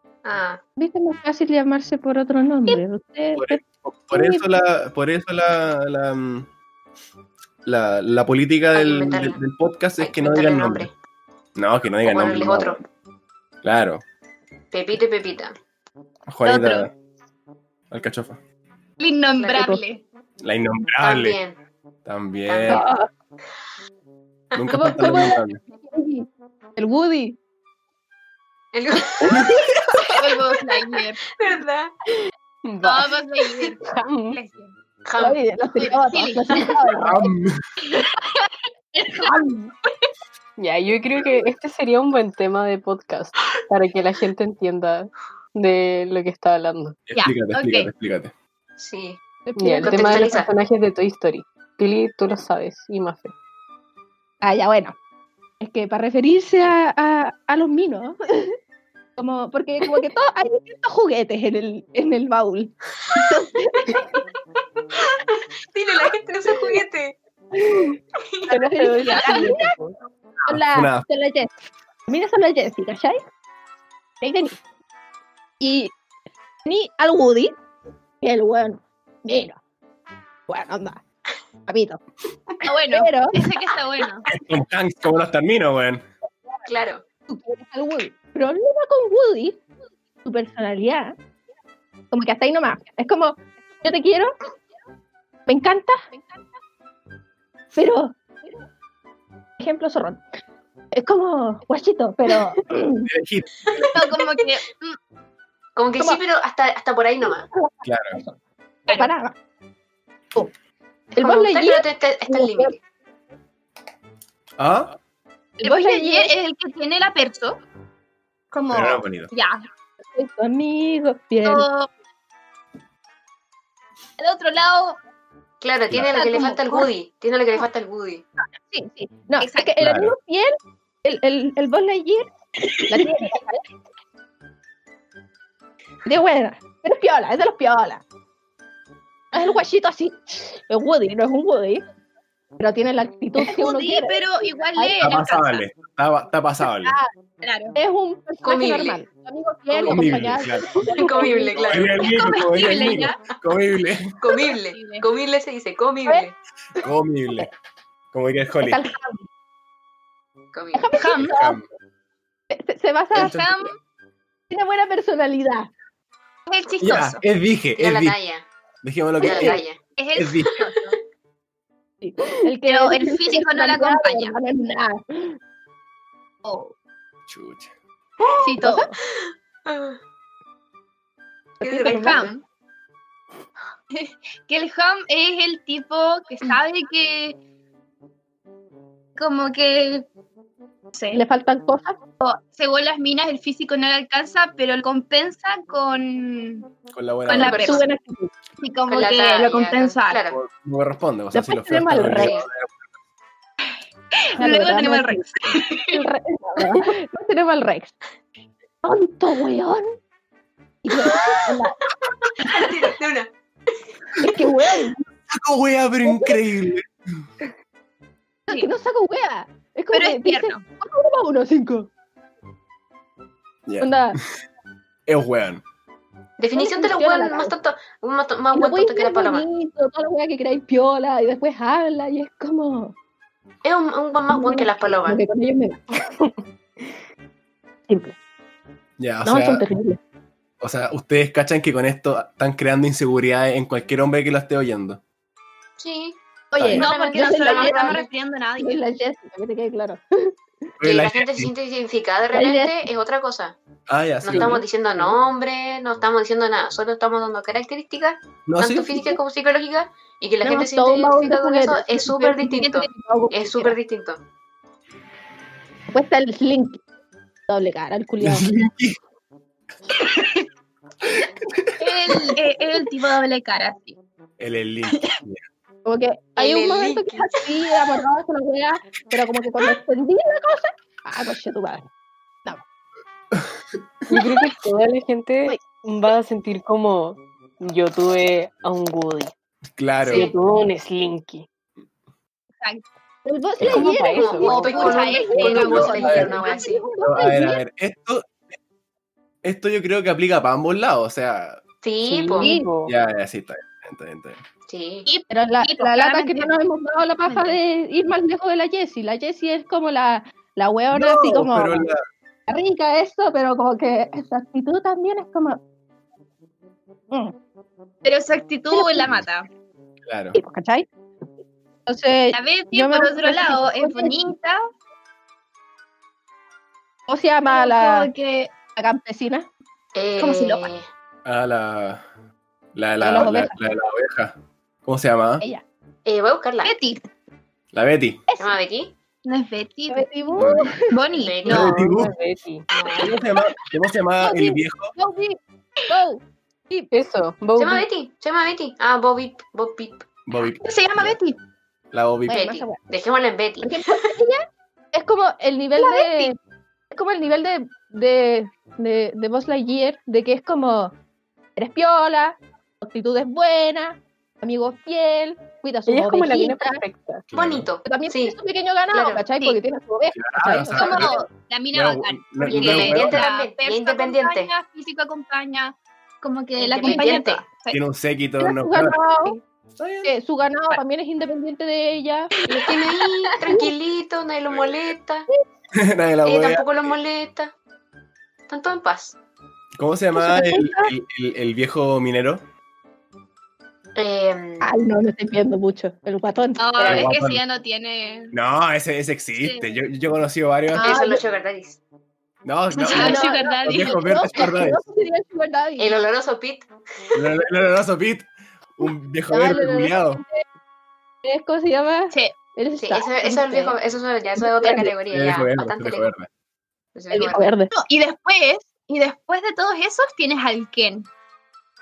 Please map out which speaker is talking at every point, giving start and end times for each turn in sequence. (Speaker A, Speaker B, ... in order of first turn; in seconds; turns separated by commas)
Speaker A: 0.2-0.6, Speaker B: 0.8-3.6, Speaker C: 3.3-6.5, Speaker B: 4.1-4.4, Speaker C: 7.6-10.9, Speaker A: 8.7-9.4, Speaker A: 10.0-10.9, Speaker C: 11.6-12.8, Speaker A: 12.0-12.8, Speaker C: 13.6-14.0, Speaker A: 14.7-15.6, Speaker C: 16.3-16.9, Speaker D: 16.4-16.9, Speaker C: 17.9-18.4, Speaker D: 19.0-20.0, Speaker A: 19.4-19.8, Speaker B: 19.5-19.8, Speaker C: 20.4-21.4, Speaker A: 21.0-21.6, Speaker C: 22.0-22.9, Speaker A: 22.5-22.9, Speaker B: 22.7-23.1, Speaker C: 24.5-25.6, Speaker B: 24.7-27.4, Speaker A: 28.7-30.1, Speaker C: 29.3-29.7, Speaker D: 30.1-31.2, Speaker A: 31.3-31.9, Speaker E: 32.6-33.1, Speaker D: 32.8-34.7, Speaker E: 33.8-34.4, Speaker A: 35.0-35.4, Speaker B: 35.2-37.3, Speaker D: 35.8-36.7, Speaker C: 37.0-37.6, Speaker D: 39.1-39.4, Speaker B: 39.1-39.4, Speaker E: 40.6-47.0, Speaker C: 47.1-48.3, Speaker D: 47.1-47.9, Speaker A: 48.8-49.2, Speaker B: 49.5-50.3, Speaker E: 49.6-53.3, Speaker A: 49.8-50.5, Speaker B: 54.4-55.0, Speaker B: 55.6-58.5, Speaker B: 59.2-64.1, Speaker A: 65.2-67.2, Speaker B: 67.6-67.9, Speaker E: 68.5-70.0, Speaker B: 68.5-69.8, Speaker D: 69.3-69.5, Speaker B: 70.5-71.5, Speaker C: 70.5-71.0, Speaker B: 72.1-73.2, Speaker B: 74.2-74.5, Speaker B: 75.6-75.9, Speaker B: 76.7-77.5, Speaker B: 78.2-79.6, Speaker B: 80.5-81.0, Speaker B: 81.7-82.0, Speaker D: 82.7-84.3, Speaker B: 82.9-83.3, Speaker C: 84.3-86.0, Speaker A: 86.7-87.0, Speaker B: 87.3-89.6, Speaker B: 90.2-91.2, Speaker B: 92.1-94.3, Speaker B: 95.5-96.1, Speaker B: 97.7-98.2, Speaker B: 99.6-100.2, Speaker B: 100.9-103.1, Speaker C: 102.9-103.9, Speaker D: 103.9-105.0, Speaker A: 105.8-107.5, Speaker B: 107.2-109.3, Speaker C: 107.8-108.2, Speaker D: 108.9-109.1, Speaker B: 111.1-112.7, Speaker A: 111.1-112.8, Speaker C: 114.6-114.9, Speaker B: 115.6-116.3, Speaker D: 115.6-117.6, Speaker D: 118.5-119.7, Speaker C: 118.7-119.3, Speaker B: 120.1-121.7, Speaker D: 121.4-121.9, Speaker D: 124.2-125.0, Speaker A: 125.6-128.2, Speaker D: 126.1-126.9, Speaker B: 128.7-132.3, Speaker D: 129.4-129.7, Speaker C: 129.8-130.1, Speaker B: 132.9-133.7, Speaker B: 136.1-138.0, Speaker B: 139.3-141.8, Speaker B: 142.6-144.2, Speaker D: 143.4-145.6, Speaker B: 144.8-145.1, Speaker C: 145.0-146.9, Speaker D: 147.4-147.7, Speaker B: 147.7-151.8, Speaker A: 148.4-149.0, Speaker A: 149.7-150.1, Speaker C: 149.9-150.8, Speaker A: 150.9-152.4, Speaker C: 151.6-154.1, Speaker D: 151.9-153.2, Speaker A: 154.2-156.3, Speaker D: 154.5-155.0, Speaker C: 156.8-157.5, Speaker C: 158.1-158.8, Speaker B: 158.6-159.2, Speaker A: 160.5-160.9, Speaker B: 160.7-161.6, Speaker D: 160.9-161.3, Speaker C: 161.2-161.7, Speaker B: 162.5-163.4, Speaker D: 163.1-163.7, Speaker C: 163.1-163.7, Speaker B: 164.5-165.7, Speaker D: 166.5-167.2, Speaker C: 166.8-168.2, Speaker A: 167.8-168.5, Speaker C: 168.8-169.6, Speaker A: 169.2-169.8, Speaker D: 170.0-170.9, Speaker C: 170.1-170.6, Speaker B: 172.0-175.4, Speaker D: 172.6-174.3, Speaker D: 176.4-176.7, Speaker C: 177.3-177.7, Speaker D: 178.4-178.9, Speaker B: 178.6-178.9, Speaker A: 179.7-180.0, Speaker B: 181.6-182.3, Speaker A: 181.6-182.4, Speaker D: 181.8-182.3, Speaker D: 183.9-187.4, Speaker D: 189.2-190.1, Speaker D: 190.9-191.2, Speaker B: 191.1-192.0, Speaker D: 192.2-196.7, Speaker C: 196.9-197.8, Speaker D: 197.3-197.8, Speaker B: 197.3-198.3, Speaker A: 197.5-197.8, Speaker D: 198.6-200.2, Speaker A: 198.9-200.4, Speaker C: 200.3-202.8, Speaker B: 201.3-202.4, Speaker A: 202.1-202.5, Speaker B: 204.4-205.3, Speaker D: 204.4-206.0, Speaker B: 205.9-207.9, Speaker B: 208.8-209.8, Speaker B: 210.8-211.8, Speaker A: 212.2-213.3, Speaker B: 214.2-215.0, Speaker C: 215.3-217.2, Speaker B: 216.1-216.4, Speaker B: 218.5-221.9, Speaker D: 219.9-220.6, Speaker C: 223.7-224.2, Speaker B: 223.8-224.2, Speaker C: 225.1-225.6, Speaker A: 226.4-229.5, Speaker B: 226.5-227.5, Speaker B: 228.5-232.9, Speaker A: 233.6-235.2, Speaker B: 234.3-235.9, Speaker B: 237.9-238.1, Speaker C: 239.0-239.6, Speaker B: 239.2-240.0, Speaker C: 240.6-245.0, Speaker A: 245.8-246.2, Speaker B: 246.5-248.0, Speaker C: 246.6-246.8, Speaker D: 246.7-248.8, Speaker A: 246.7-248.1, Speaker B: 248.6-250.3, Speaker C: 250.8-251.5, Speaker A: 250.8-253.6, Speaker B: 252.3-252.8, Speaker C: 253.9-254.6, Speaker A: 254.2-264.2, Speaker C: 258.5-259.0, Speaker B: 260.4-263.8, Speaker B: 265.9-266.8, Speaker B: 267.5-268.5, Speaker C: 268.2-269.0, Speaker C: 271.5-272.4, Speaker D: 271.8-274.0, Speaker C: 274.4-275.4, Speaker D: 274.9-275.1, Speaker B: 275.8-281.9, Speaker A: 276.4-277.4, Speaker E: 284.1-289.3, Speaker C: 289.8-290.3, Speaker A: 290.0-290.3, Speaker E: 290.1-291.4, Speaker B: 293.2-297.6, Speaker E: 293.7-294.7, Speaker A: 294.1-296.8, Speaker D: 294.4-296.7, Speaker C: 297.0-298.3, Speaker C: 299.4-301.6, Speaker A: 301.8-302.5, Speaker E: 302.0-302.9, Speaker B: 302.4-302.7, Speaker C: 302.9-304.4, Speaker A: 304.7-305.1, Speaker D: 305.1-306.5, Speaker B: 305.3-311.9, Speaker D: 307.3-307.6, Speaker C: 310.9-312.0, Speaker B: 312.5-315.6, Speaker D: 318.0-319.5, Speaker B: 318.7-319.1, Speaker C: 320.0-320.4, Speaker B: 320.3-320.9, Speaker B: 321.9-324.2, Speaker D: 322.3-324.7, Speaker B: 327.1-328.1, Speaker D: 327.5-328.5, Speaker B: 328.8-329.5, Speaker A: 329.9-330.9, Speaker D: 330.2-330.7, Speaker C: 331.2-332.0, Speaker C: 332.7-335.4, Speaker B: 333.0-333.6, Speaker A: 336.1-336.7, Speaker D: 336.6-337.0, Speaker C: 337.7-338.2, Speaker B: 338.3-338.6, Speaker A: 338.4-338.9, Speaker D: 339.2-341.8, Speaker B: 339.9-340.9, Speaker C: 340.4-340.7, Speaker A: 341.2-341.8, Speaker C: 341.5-342.1, Speaker E: 341.7-342.7, Speaker A: 342.7-343.2, Speaker C: 342.9-344.9, Speaker B: 344.2-345.4, Speaker B: 345.9-346.9, Speaker E: 346.9-347.9, Speaker A: 347.6-350.1, Speaker C: 350.3-351.2, Speaker D: 350.6-351.4, Speaker C: 351.9-352.4, Speaker B: 352.3-352.8, Speaker A: 352.3-353.7, Speaker B: 353.6-356.4, Speaker D: 355.8-356.3, Speaker B: 356.9-360.9, Speaker B: 361.6-366.8, Speaker E: 365.9-367.3, Speaker C: 367.3-367.7, Speaker A: 367.3-368.4, Speaker B: 367.9-371.1, Speaker A: 368.9-369.2, Speaker C: 370.1-373.2, Speaker D: 370.7-377.8, Speaker A: 372.5-374.5, Speaker A: 376.6-377.4, Speaker B: 376.8-377.1, Speaker C: 377.7-379.0, Speaker B: 378.4-379.4, Speaker C: 379.8-380.1, Speaker B: 380.0-382.3, Speaker A: 382.5-385.3, Speaker D: 382.6-382.9, Speaker C: 384.5-384.9, Speaker C: 385.7-386.9, Speaker A: 386.2-387.5, Speaker A: 388.5-389.2, Speaker C: 389.8-392.4, Speaker B: 390.1-390.9, Speaker A: 393.9-394.7, Speaker B: 394.6-397.1, Speaker D: 396.6-398.3, Speaker C: 396.8-397.4, Speaker C: 398.3-401.0, Speaker D: 399.4-399.7, Speaker B: 400.7-401.2, Speaker A: 400.8-401.8, Speaker C: 402.4-404.8, Speaker D: 402.7-404.1, Speaker B: 402.9-406.0, Speaker A: 405.8-406.7, Speaker C: 407.1-410.2, Speaker B: 408.8-410.4, Speaker B: 411.2-413.8, Speaker A: 412.8-416.1, Speaker B: 414.4-414.9, Speaker C: 414.7-416.3, Speaker A: 416.9-417.5, Speaker B: 417.1-417.7, Speaker D: 417.7-421.1